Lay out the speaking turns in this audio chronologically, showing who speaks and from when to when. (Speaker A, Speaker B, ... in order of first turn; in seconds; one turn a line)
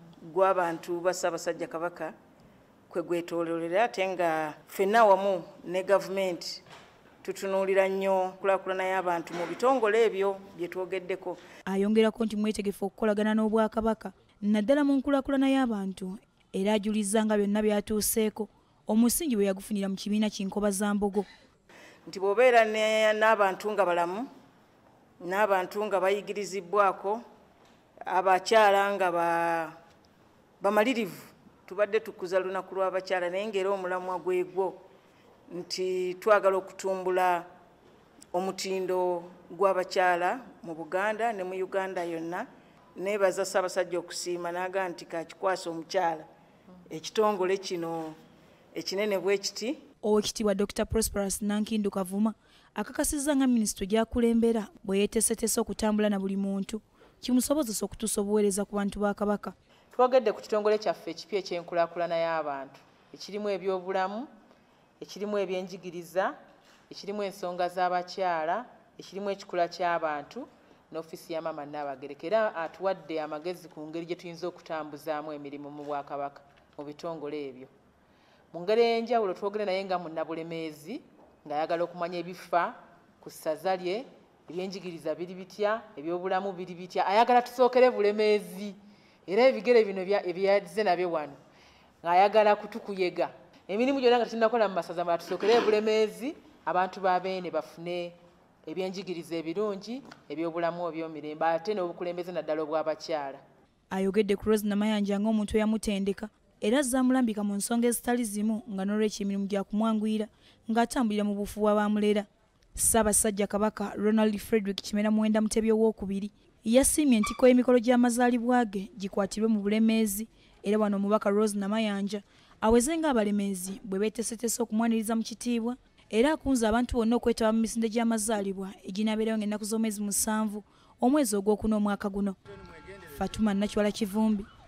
Speaker A: 0.2-2.1
Speaker A: 2.9-6.6
Speaker A: 7.2-11.4
Speaker B: 11.7-21.3
Speaker A: 22.1-24.3
Speaker A: 25.2-27.2
Speaker A: 28.1-29.8
Speaker A: 30.6-34.8
Speaker A: 35.5-37.5
Speaker A: 38.3-46.3
Speaker A: 46.9-48.2
Speaker A: 48.7-49.8
Speaker B: 50.0-59.5
Speaker C: 59.9-64.3
Speaker C: 65.0-66.3
Speaker C: 66.9-77.7
Speaker C: 78.5-91.4
Speaker C: 92.0-103.4
Speaker B: 103.9-132.4
Speaker B: 133.1-134.5